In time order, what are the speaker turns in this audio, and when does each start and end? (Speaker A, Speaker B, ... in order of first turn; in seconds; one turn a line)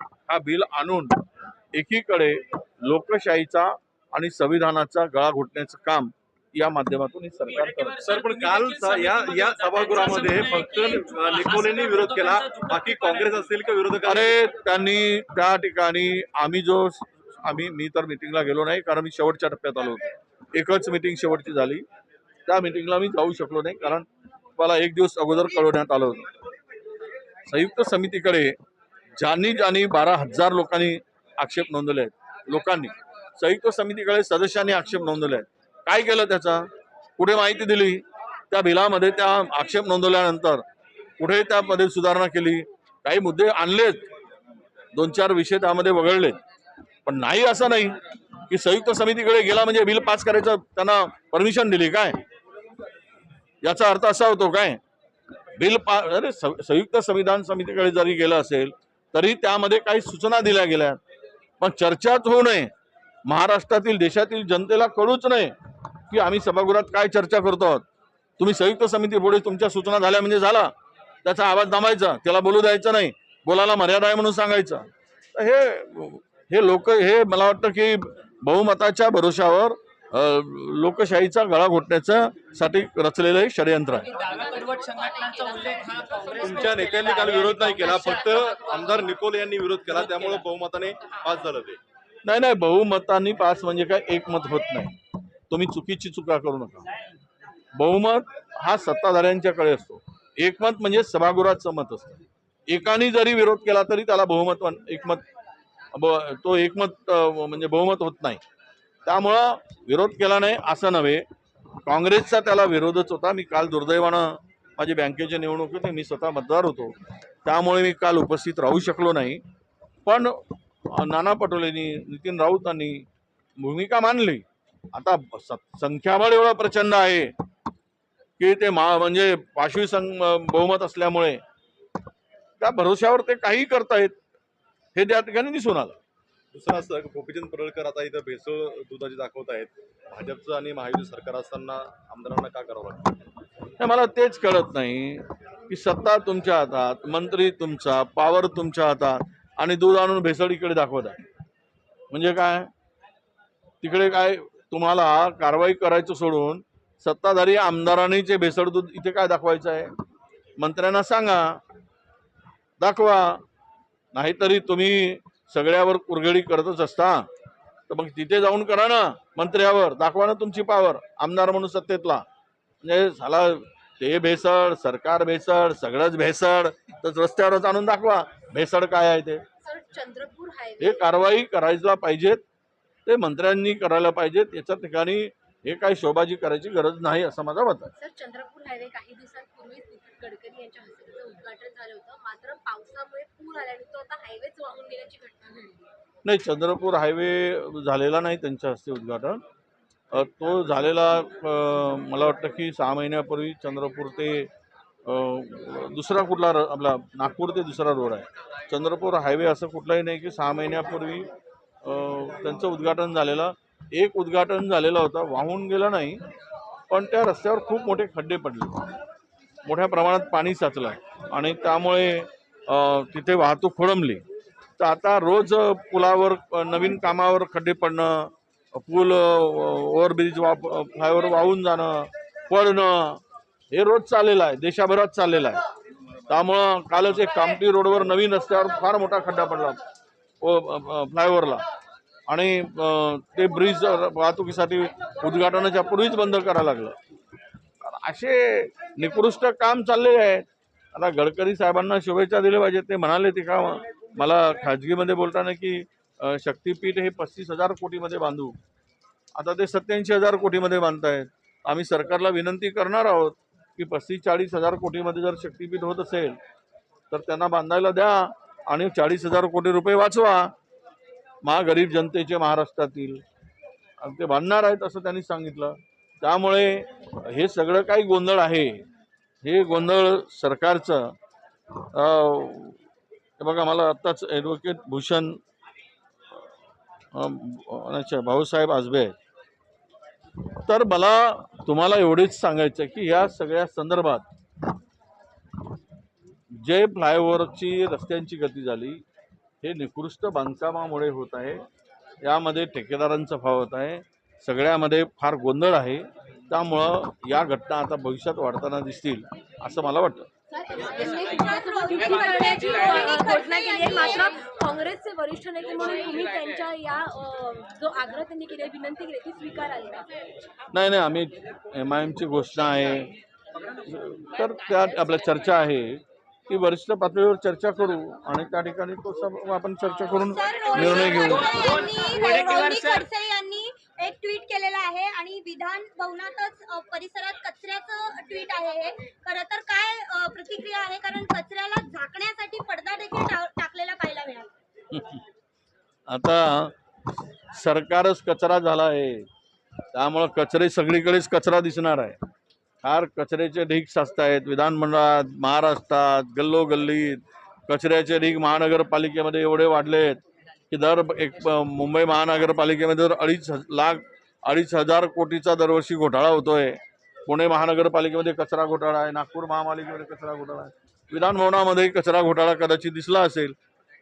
Speaker A: 0.3-1.2
Speaker A: 1.7-8.1
Speaker B: 8.0-14.4
Speaker C: 8.1-10.8
Speaker C: 11.5-12.0
Speaker A: 14.1-21.8
Speaker A: 22.4-26.3
Speaker A: 27.5-28.5
Speaker A: 29.2-40.6
Speaker A: 41.2-44.0
Speaker A: 45.0-46.4
Speaker A: 47.0-48.0
Speaker A: 48.5-52.2
Speaker A: 53.6-54.8
Speaker A: 55.6-61.0
Speaker A: 61.6-62.7
Speaker A: 63.2-65.5
Speaker A: 66.1-67.8
Speaker A: 68.4-70.7
Speaker A: 71.2-84.1
Speaker C: 84.2-86.3
Speaker B: 86.2-91.8
Speaker A: 92.2-96.9
Speaker A: 97.8-105.2
Speaker A: 105.9-108.4
Speaker A: 109.0-111.2
Speaker A: 111.8-116.9
Speaker A: 117.4-119.4
Speaker A: 120.0-123.0
Speaker A: 123.6-127.3
Speaker A: 128.4-131.4
Speaker A: 132.6-134.1
Speaker A: 134.9-136.0
Speaker B: 136.5-143.2
Speaker A: 143.8-151.2
Speaker A: 152.1-152.7
Speaker A: 153.8-159.9
Speaker A: 160.6-161.6
Speaker A: 162.8-163.4
Speaker A: 164.1-167.2
Speaker A: 167.9-172.2
Speaker A: 172.8-179.4
Speaker D: 179.6-181.2
Speaker A: 180.8-182.4
Speaker A: 183.1-187.9
Speaker D: 187.9-195.8
Speaker A: 196.2-199.4
Speaker A: 200.1-204.5
Speaker A: 205.1-211.3
Speaker A: 211.8-216.2
Speaker A: 216.9-218.9
Speaker A: 219.7-224.2
Speaker A: 224.8-235.6
Speaker A: 236.3-239.8
Speaker A: 240.4-241.6
Speaker A: 242.3-247.0
Speaker A: 247.8-258.6
Speaker A: 259.4-266.4
Speaker A: 267.1-270.5
Speaker A: 271.4-273.2
Speaker A: 274.0-278.8
Speaker A: 279.4-281.1
Speaker A: 281.8-282.8
Speaker A: 283.4-285.4
Speaker A: 287.1-289.1
Speaker A: 290.5-294.3
Speaker A: 296.5-299.0
Speaker A: 299.6-301.6
Speaker A: 302.2-310.3
Speaker D: 310.6-320.1
Speaker E: 310.7-314.4
Speaker A: 320.7-323.1
Speaker A: 323.8-331.5
Speaker E: 330.1-344.6
Speaker A: 344.9-345.2
Speaker A: 346.1-346.7
Speaker A: 347.5-349.3
Speaker A: 349.9-352.2
Speaker A: 352.8-360.2
Speaker A: 360.7-373.5